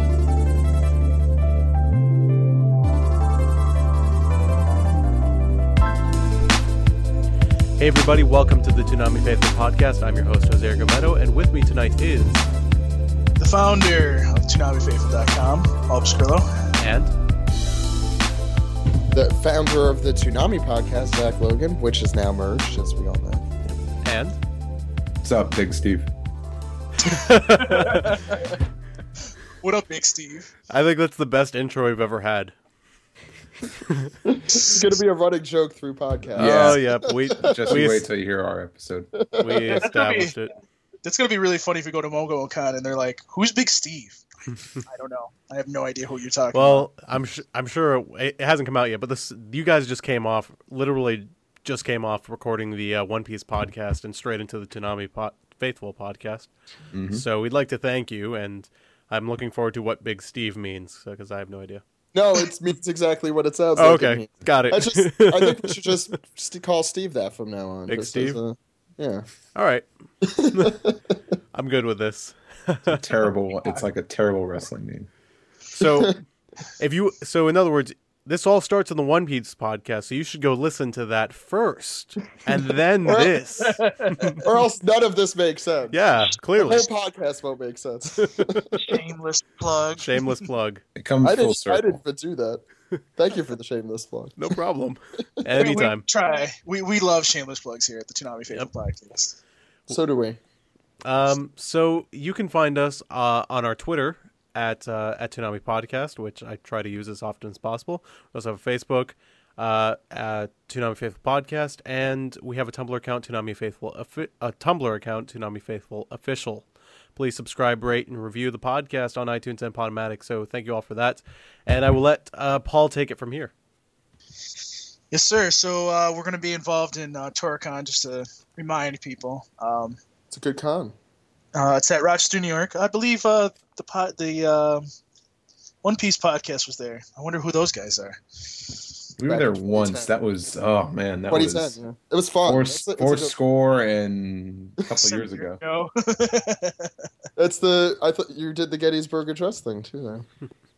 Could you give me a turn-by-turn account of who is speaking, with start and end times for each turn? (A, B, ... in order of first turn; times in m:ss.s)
0:07.8-0:12.4 A
0:13.4-0:16.5 B
0:16.8-0:17.1 A
0:19.1-0:23.4 C
0:24.0-0:24.4 A
0:25.2-0:26.1 D
0:27.0-0:28.6 B
0:27.0-0:28.2 A
0:29.6-0:30.5 B
0:30.7-0:32.5 A
0:34.2-0:37.8 C
0:34.5-0:34.8 B
0:36.4-0:36.8 D
0:36.4-0:38.1 A
0:37.4-0:39.1 D
0:39.2-0:39.8 C
0:39.4-0:40.5 A
0:39.8-0:40.4 B
0:41.0-0:44.2 B
0:44.5-0:44.8 A
0:44.8-0:46.9 B
0:46.5-0:56.5 A
0:56.9-0:57.2 D
0:57.1-1:01.8 A
1:02.1-1:09.2 C
1:03.8-1:05.9 A
1:07.9-1:08.4 A
1:09.5-1:09.8 A
1:10.2-1:11.0 C
1:10.4-1:10.8 A
1:11.5-1:13.0 A
1:12.9-1:15.1 D
1:15.7-1:16.2 A
1:15.8-1:16.1 C
1:16.8-1:24.4 A
1:23.0-1:23.4 C
1:23.6-1:24.4 B
1:24.4-1:26.0 C
1:25.9-1:26.9 A
1:26.6-1:28.7 C
1:28.2-1:28.8 A
1:28.8-1:30.4 B
1:30.0-1:30.8 A
1:31.0-1:32.0 D
1:31.2-1:32.6 C
1:33.2-1:34.5 C
1:34.4-1:36.0 A
1:35.6-1:39.4 B
1:39.9-1:40.4 C
1:41.0-2:03.5 A
2:05.1-2:10.0 B
2:10.3-2:10.9 C
2:11.5-2:14.8 B
2:15.8-2:18.8 B
2:19.2-2:21.8 D
2:19.3-2:20.1 C
2:21.3-2:23.3 C
2:22.4-2:25.6 D
2:25.0-2:26.9 B
2:27.4-2:30.2 C